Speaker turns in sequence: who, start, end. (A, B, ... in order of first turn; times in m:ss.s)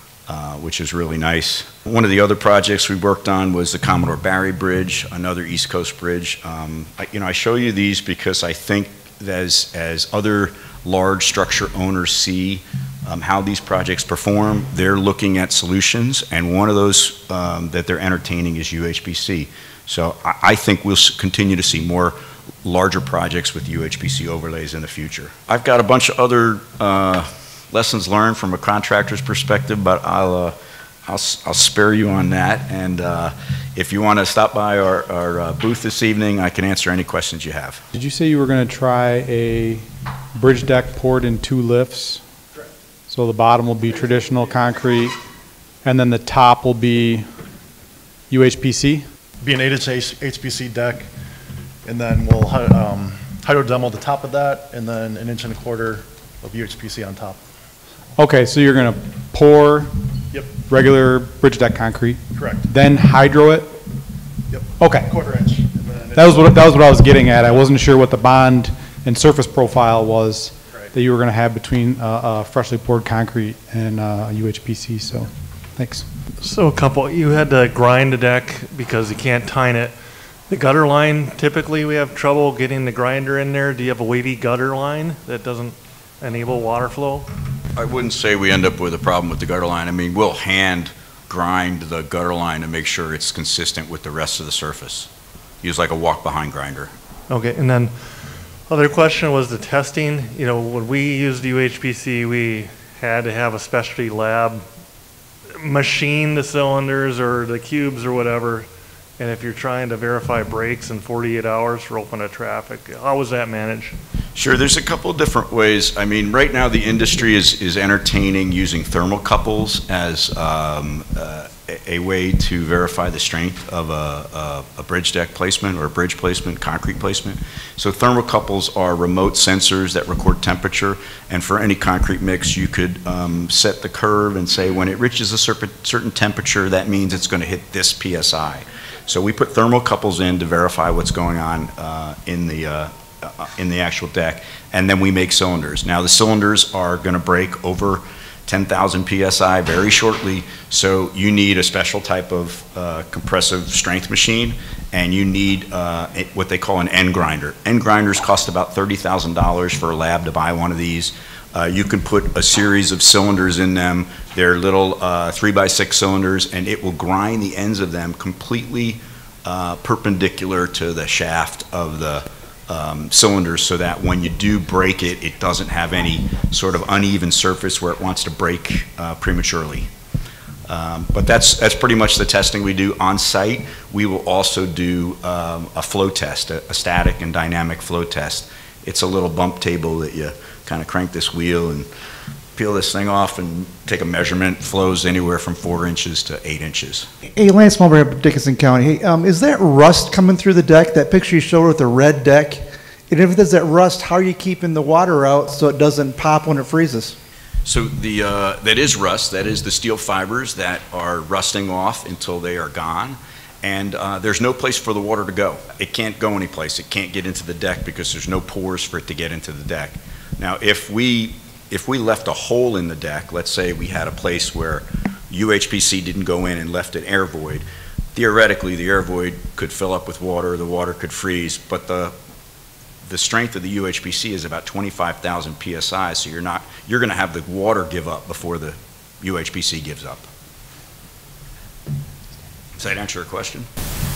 0:00.3-0:37.8 A
0:37.9-0:42.2 B
0:43.1-0:45.1 B
0:45.8-0:47.3 B
0:48.3-0:49.0 B
0:49.4-0:51.1 C
0:51.8-0:57.4 C
0:58.2-0:59.9 B
1:00.6-1:03.8 B
1:02.3-1:02.7 C
1:04.5-1:06.5 C
1:04.8-1:05.1 B
1:06.2-1:16.0 B
1:16.4-1:19.9 D
1:20.5-1:27.2 D
1:27.8-1:35.1 A
1:35.6-1:36.9 A
1:37.3-1:37.9 D
1:38.7-1:44.6 D
1:45.6-1:53.9 D
1:54.4-2:59.9 A
3:00.7-3:11.9 A
3:12.6-3:17.1 A
3:17.3-3:27.2 E
3:27.6-3:52.1 A
3:53.0-4:00.3 A
4:02.8-4:03.7 A